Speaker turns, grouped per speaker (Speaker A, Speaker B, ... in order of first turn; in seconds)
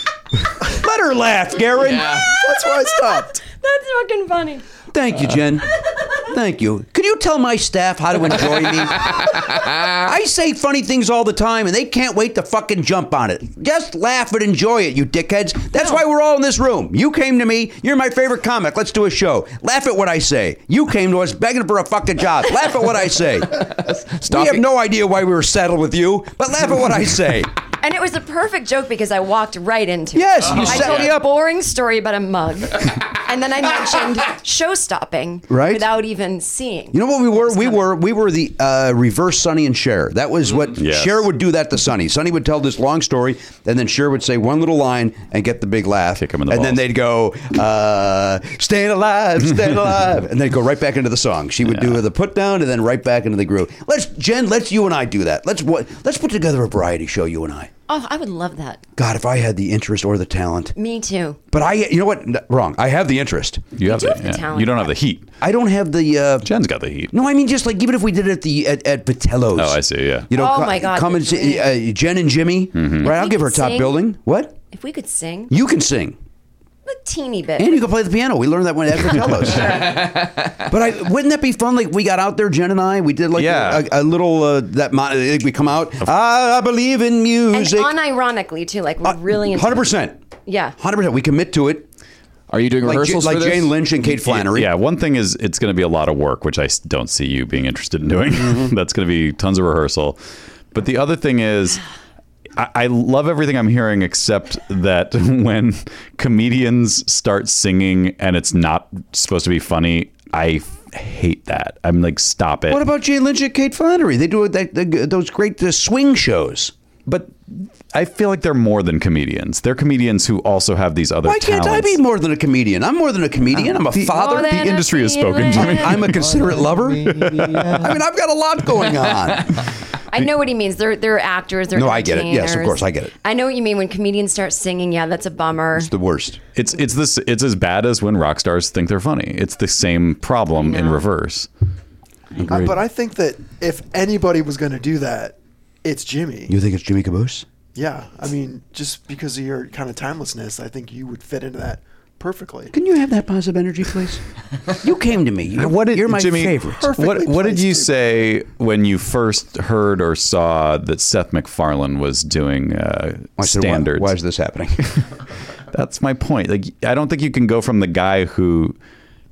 Speaker A: 0.7-2.3, 4.9-27.5, 30.1-31.2, 35.5-35.9, 36.9-57.7, 59.0-60.7, 61.5-63.8, 65.4-66.5, 67.1-74.6, 75.5-76.2, 77.6-87.9, 89.0-90.2, 90.8-91.8, 92.8-94.7, 98.4-98.7, 112.7-116.7, 121.2-124.5, 125.5-129.7, 131.7-133.1, 135.8-136.4, 146.5-147.4, 152.7-156.9, 163.4-165.0
Speaker B: 2.2-4.6, 27.8-37.8, 57.9-58.8, 60.7-61.4, 63.8-64.9, 70.3-71.7, 73.0-74.0, 74.7-75.5, 76.8-77.9, 79.5-80.0, 87.5-89.9, 90.5-90.7, 124.0-126.0, 130.1-135.9, 140.6-141.0
Speaker C: 2.2-3.4, 142.5-146.5, 147.7-152.7, 156.7-158.0
Speaker D: 23.8-24.6, 92.5-93.8
Speaker E: 40.7-41.3, 46.2-46.8, 51.7-52.0, 63.8-65.3, 66.4-67.1, 69.5-70.3, 72.7-73.1, 83.3-83.8, 94.2-100.2, 100.7-101.8, 102.5-112.8, 117.0-122.0, 123.6-128.0, 136.5-141.5, 142.4-142.8, 155.5-164.1, 165.7-168.8